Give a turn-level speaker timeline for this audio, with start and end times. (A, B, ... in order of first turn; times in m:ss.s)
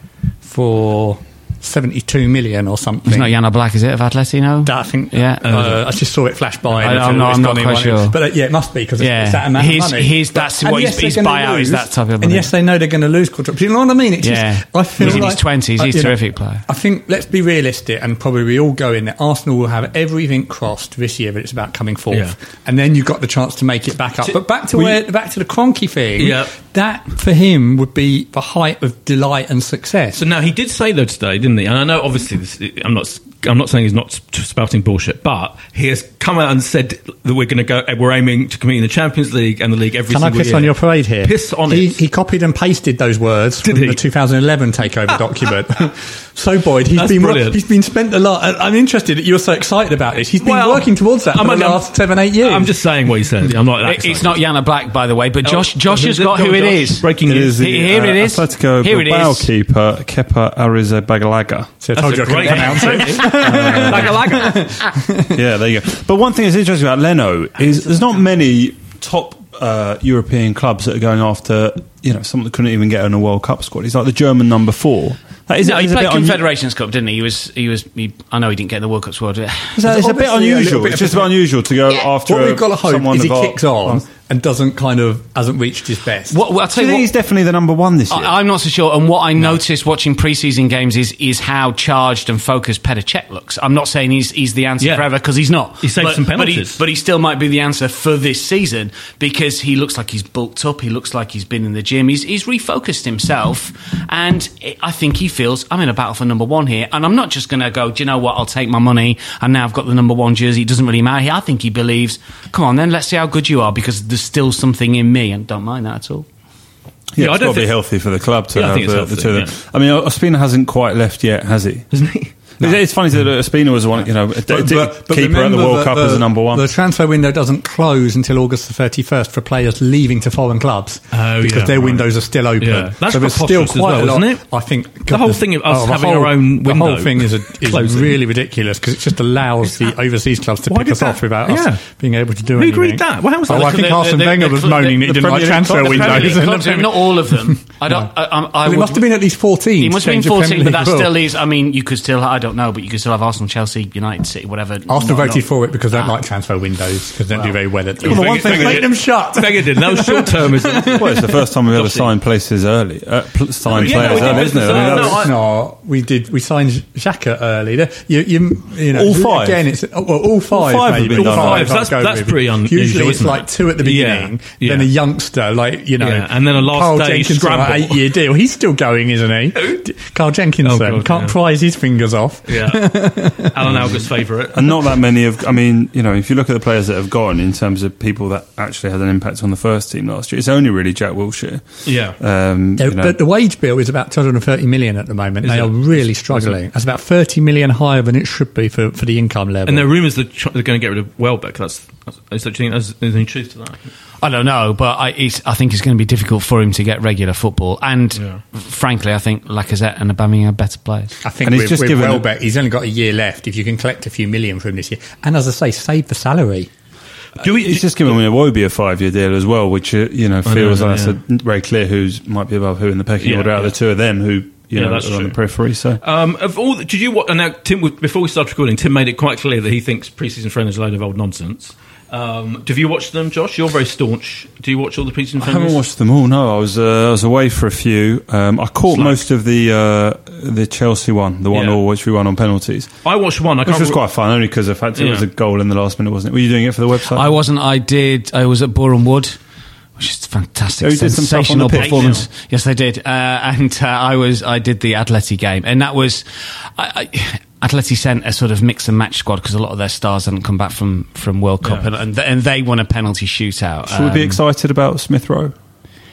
0:00.4-0:03.3 A
0:03.1-0:05.6 B
0:04.6-0:30.3 A
0:05.4-0:05.8 C
0:06.8-0:08.2 B
0:09.0-0:12.5 B
0:14.2-0:16.6 B
0:15.0-0:15.3 C
0:22.1-0:22.4 C
0:24.2-0:25.0 C
0:26.2-0:26.6 C
0:30.2-0:42.0 C
0:40.1-0:53.2 A
0:43.6-0:44.0 C
0:45.1-0:45.5 C
0:46.9-0:47.6 C
0:50.4-0:54.4 C
0:53.8-0:59.5 B
0:55.4-0:57.7 C
0:57.2-1:01.8 D
1:01.8-1:05.4 A
1:02.0-1:04.7 C
1:03.3-1:04.2 D
1:05.3-1:16.4 D
1:07.6-1:08.1 C
1:15.6-1:19.8 B
1:19.8-1:24.1 D
1:19.8-1:21.4 A
1:22.2-1:26.4 A
1:26.3-1:27.1 B
1:26.7-1:28.3 D
1:28.1-1:56.3 B
1:34.8-1:35.1 C
1:35.8-1:36.8 C
1:57.1-2:06.6 D
1:57.2-1:59.5 C
2:01.9-2:02.3 C
2:04.3-2:28.1 A
2:11.1-2:12.1 C
2:12.6-2:14.5 C
2:15.1-2:18.2 C
2:20.7-2:21.9 C
2:22.5-2:23.8 C
2:23.5-2:29.1 B
2:25.0-2:26.6 D
2:28.6-2:31.2 A
2:29.8-2:36.2 B
2:34.9-2:41.2 A
2:38.0-2:38.9 D
2:38.0-2:42.1 C
2:40.9-2:45.3 D
2:43.7-3:03.9 A
2:43.7-2:45.3 C
2:48.9-2:49.6 D
2:50.5-2:51.7 D
2:50.9-2:54.9 C
2:56.0-2:58.1 C
2:59.6-2:59.8 C
3:00.6-3:01.4 C
3:02.5-3:04.9 C
3:04.5-3:13.2 D
3:11.8-3:12.2 C
3:12.8-3:19.9 A
3:15.4-3:16.6 C
3:19.7-3:23.9 C
3:24.2-3:31.2 B
3:28.2-3:28.4 C
3:31.2-3:36.7 A
3:31.4-3:32.2 D
3:37.4-3:38.2 C
3:37.4-3:46.0 D
3:40.4-3:41.2 C
3:43.2-3:43.8 C
3:44.7-3:45.4 C
3:46.0-3:55.8 C
3:55.4-4:03.1 D
3:58.9-3:59.2 C
4:01.5-4:01.8 C
4:03.0-4:04.0 C
4:03.6-4:07.3 D
4:05.0-4:05.2 C
4:07.1-4:09.4 B
4:10.0-4:24.4 B
4:10.8-4:12.2 D
4:11.8-4:12.3 C
4:21.6-4:21.9 C
4:23.9-4:25.5 D